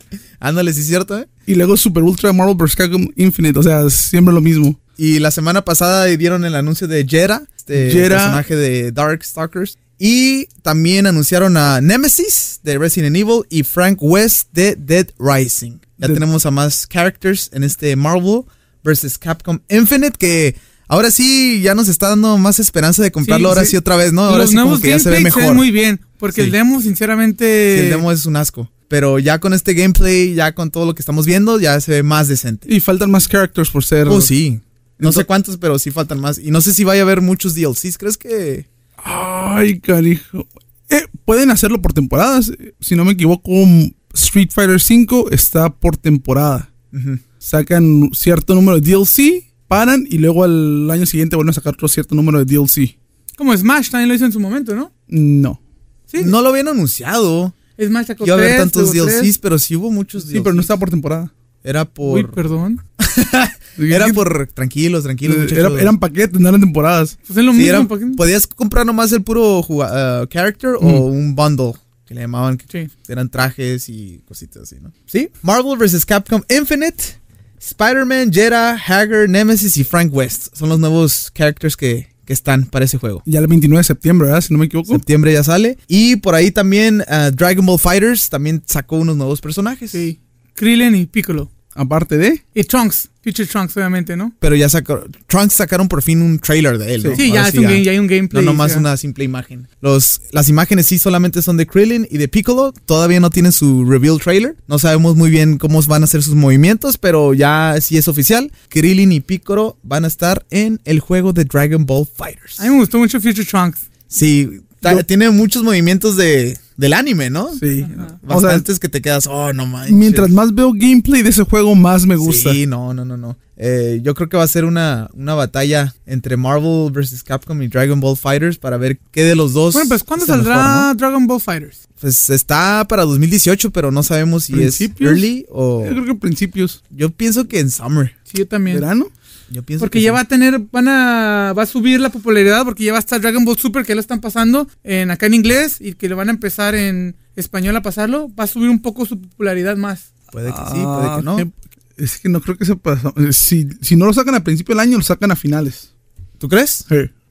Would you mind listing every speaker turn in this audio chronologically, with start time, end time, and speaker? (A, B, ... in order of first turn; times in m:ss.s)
0:00.4-0:01.3 A
0:01.5-0:04.8 B
0:05.0-0:25.7 A
0:07.7-0:08.4 B
0:23.2-0:23.8 C
0:24.3-0:28.0 C
0:27.7-0:32.6 A
0:32.6-0:34.3 B
0:34.0-0:38.6 A
0:35.0-0:35.2 B
0:39.0-0:46.7 B
0:46.9-0:47.2 A
0:47.4-0:52.9 B
0:53.4-0:54.9 C
0:55.1-0:55.6 B
0:56.2-0:57.6 A
0:57.8-0:59.3 C
0:58.2-1:00.7 A
1:00.2-1:01.3 B
1:01.6-1:02.4 A
1:02.0-1:02.8 C
1:03.0-1:05.9 A
1:03.8-1:04.2 B
1:05.2-1:07.2 B
1:07.2-1:08.2 C
1:07.5-1:23.2 A
1:23.2-1:25.0 B
1:24.9-1:30.0 A
1:29.9-1:31.5 C
1:31.7-1:32.4 B
1:32.5-1:34.3 C
1:34.4-1:52.6 A
1:37.2-1:38.8 C
1:52.6-1:53.8 C
1:54.1-1:57.6 A
1:57.6-1:58.6 B
1:57.8-1:58.1 C
1:58.2-2:00.3 A
1:59.9-2:02.6 B
2:02.2-2:10.9 A
2:09.7-2:11.8 C
2:12.0-2:16.0 A
2:14.5-2:15.2 B
2:15.8-2:16.8 B
2:16.9-2:18.1 A
2:18.3-2:18.8 C
2:18.7-2:19.1 B
2:19.5-2:20.2 A
2:19.8-2:30.0 C
2:30.3-2:31.5 A
2:30.5-2:35.8 B
2:36.4-2:36.9 A